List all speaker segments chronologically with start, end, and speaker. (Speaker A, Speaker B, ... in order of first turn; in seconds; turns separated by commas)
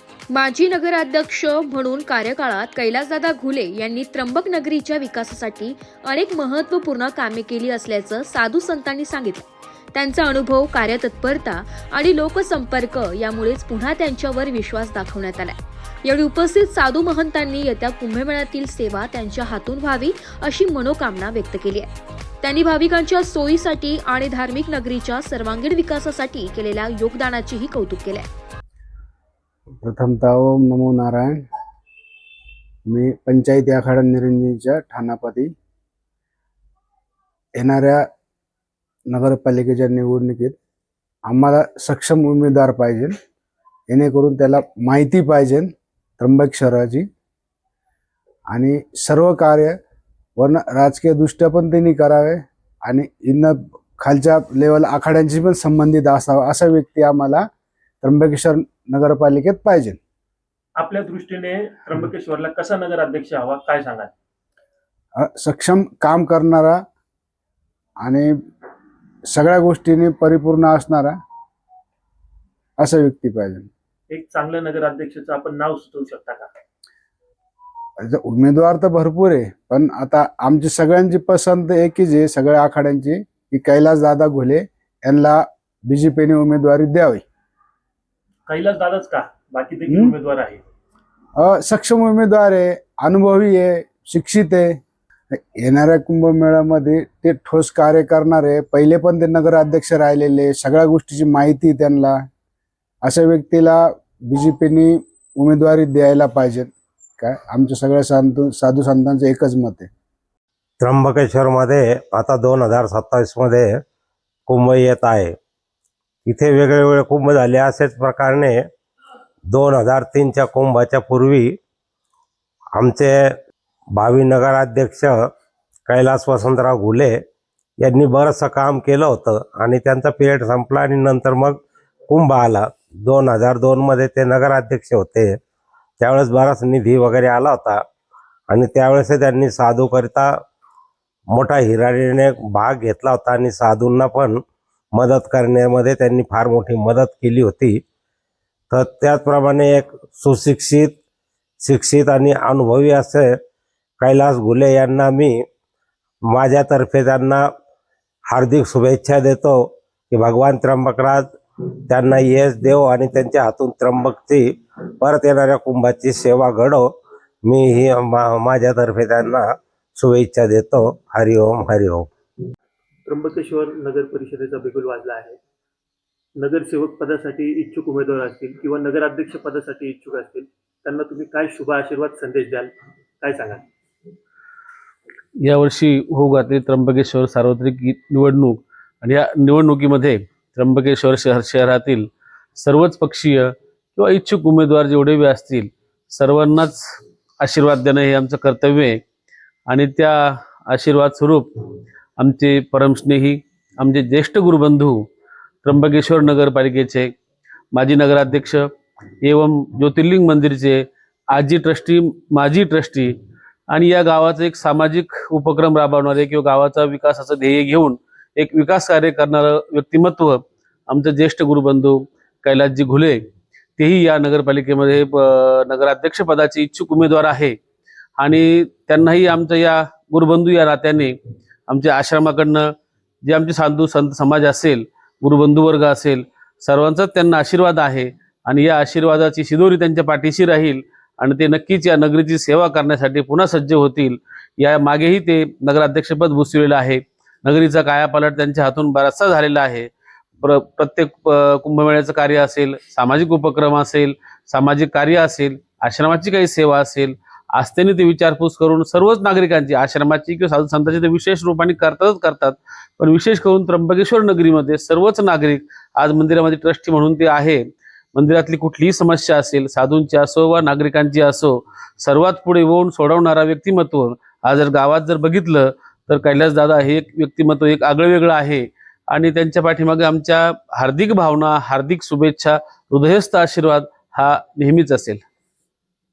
Speaker A: 0.3-21.9, Speaker A: 22.4-28.3, Speaker B: 29.8-31.4, Speaker B: 32.9-35.5, Speaker B: 37.6-38.0, Speaker B: 39.1-40.6, Speaker B: 41.3-43.1, Speaker B: 43.9-47.1, Speaker B: 48.5-49.8, Speaker B: 50.4-57.5, Speaker B: 58.0-60.0, Speaker C: 60.8-64.1, Speaker B: 65.2-66.8, Speaker B: 68.0-68.3, Speaker B: 69.3-71.2, Speaker B: 72.8-73.7, Speaker C: 74.1-76.5, Speaker B: 78.0-87.2, Speaker C: 88.5-90.6, Speaker B: 89.9-90.1, Speaker B: 91.4-94.8, Speaker B: 95.3-102.2, Speaker B: 103.0-109.9, Speaker D: 110.8-113.8, Speaker D: 114.5-115.4, Speaker D: 116.3-118.6, Speaker D: 119.5-121.5, Speaker D: 122.8-123.2, Speaker D: 124.0-125.2, Speaker D: 125.9-127.2, Speaker D: 127.8-135.4, Speaker D: 136.0-137.8, Speaker D: 138.5-140.3, Speaker D: 141.3-144.4, Speaker D: 144.9-147.8, Speaker D: 148.7-151.0, Speaker D: 151.6-153.3, Speaker D: 154.0-155.3, Speaker D: 156.3-157.4, Speaker D: 158.3-159.6, Speaker D: 160.1-161.3, Speaker D: 161.9-164.5, Speaker D: 165.0-166.9, Speaker D: 167.4-172.1, Speaker C: 173.1-175.4, Speaker C: 176.4-182.7, Speaker C: 183.2-183.6, Speaker E: 185.4-196.8, Speaker E: 197.4-199.0, Speaker E: 199.7-201.6, Speaker E: 202.2-205.1, Speaker E: 205.6-207.1, Speaker E: 207.7-208.7, Speaker E: 209.2-213.1, Speaker E: 213.7-223.2, Speaker E: 223.8-227.6, Speaker E: 228.2-231.2, Speaker E: 231.7-232.7, Speaker E: 233.2-267.6, Speaker E: 268.1-285.2